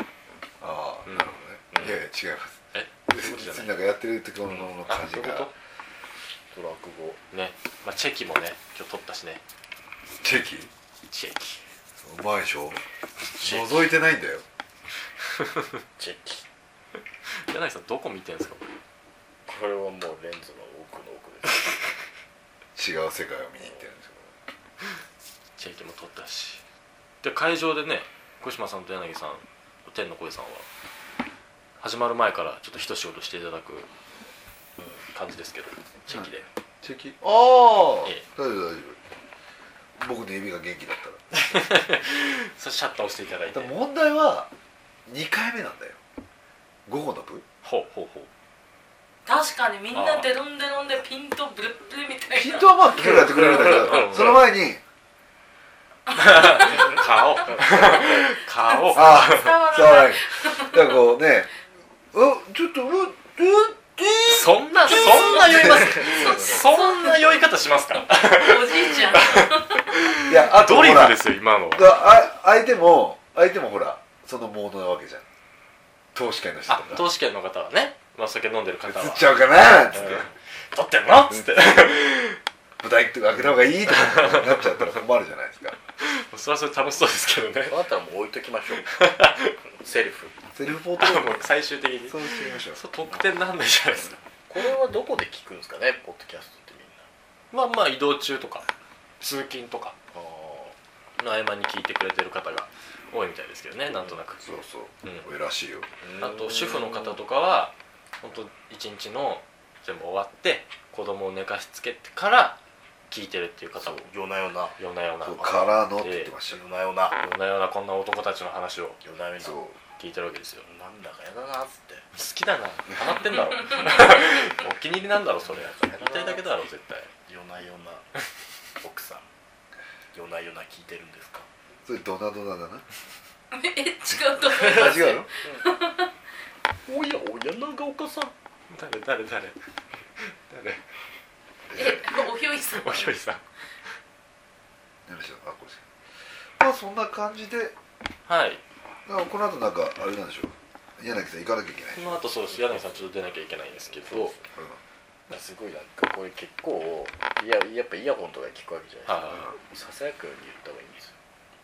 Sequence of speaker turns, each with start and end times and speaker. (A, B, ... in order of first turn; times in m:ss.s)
0:00.6-0:05.5 A
0:01.1-0:01.9 B
0:01.7-0:02.0 C
0:02.7-0:03.7 B
0:04.9-0:05.5 B
0:06.5-0:07.2 C
0:07.3-0:09.4 B
0:10.2-0:10.7 A
0:11.1-0:11.6 B
0:12.0-0:12.8 A
0:13.4-0:13.8 C
0:13.4-0:14.4 A
0:15.4-0:15.7 B
0:16.0-0:16.4 C
0:17.3-0:18.7 B
0:19.5-0:21.9 C
0:22.8-0:24.1 A
0:23.6-0:24.2 C
0:25.6-0:26.6 B
0:27.2-0:30.6 B
0:31.8-0:33.9 B
0:35.1-0:36.5 B
0:36.8-0:39.0 A
0:40.0-0:41.2 A
0:41.3-0:43.7 B
0:43.5-0:44.5 A
0:45.1-0:46.0 A
0:46.9-0:47.4 A
0:47.6-0:48.3 B
0:49.2-0:52.7 D
0:49.9-0:50.3 B
0:52.3-0:54.8 A
0:53.2-0:54.5 B
0:53.4-0:53.9 C
0:56.1-0:59.6 B
0:56.3-0:57.0 D
0:57.5-0:58.2 C
0:58.8-1:00.9 D
0:58.9-1:01.5 A
1:02.1-1:06.2 A
1:04.3-1:11.9 B
1:05.6-1:06.7 C
1:06.2-1:07.4 D
1:08.1-1:09.8 D
1:10.3-1:11.2 A
1:11.7-1:15.2 A
1:16.1-1:17.0 A
1:16.7-1:22.4 B
1:18.8-1:20.3 A
1:21.3-1:21.8 A
1:22.8-1:25.8 A
1:23.9-1:24.9 B
1:26.0-1:27.8 B
1:27.7-1:28.9 C
1:28.9-1:29.6 B
1:29.7-1:30.4 C
1:30.6-1:31.4 A
1:31.0-1:34.2 B
1:32.1-1:32.8 A
1:34.5-1:37.1 C
1:37.5-1:38.6 B
1:39.2-1:40.0 B
1:40.1-1:40.8 C
1:41.2-1:44.4 B
1:44.4-1:45.9 A
1:46.0-1:47.2 C
1:46.2-1:52.6 B
1:53.1-1:54.1 B
1:53.8-1:54.8 C
1:54.8-1:56.3 B
1:55.2-1:56.6 A
1:55.4-1:55.7 C
1:56.5-1:57.2 C
1:57.2-1:59.0 B
1:59.0-1:59.6 C
1:59.4-1:59.8 A
2:00.0-2:00.6 B
2:00.6-2:02.1 C
2:02.1-2:07.1 B
2:05.4-2:06.4 C
2:07.2-2:08.1 C
2:08.8-2:09.2 C
2:10.1-2:11.5 C
2:11.8-2:12.8 A
2:13.5-2:16.1 D
2:14.5-2:15.7 C
2:14.5-2:15.3 A
2:16.9-2:18.3 C
2:18.7-2:19.6 B
2:20.2-2:20.8 B
2:21.7-2:22.0 A
2:21.7-2:23.1 D
2:22.7-2:23.4 B
2:25.1-2:25.8 A
2:26.6-2:27.8 A
2:28.3-2:28.6 B
2:29.1-2:32.2 A
2:31.9-2:34.4 B
2:32.5-2:33.0 C
2:33.9-2:34.4 C
2:34.5-2:34.8 A
2:35.3-2:41.2 C
2:39.1-2:39.5 B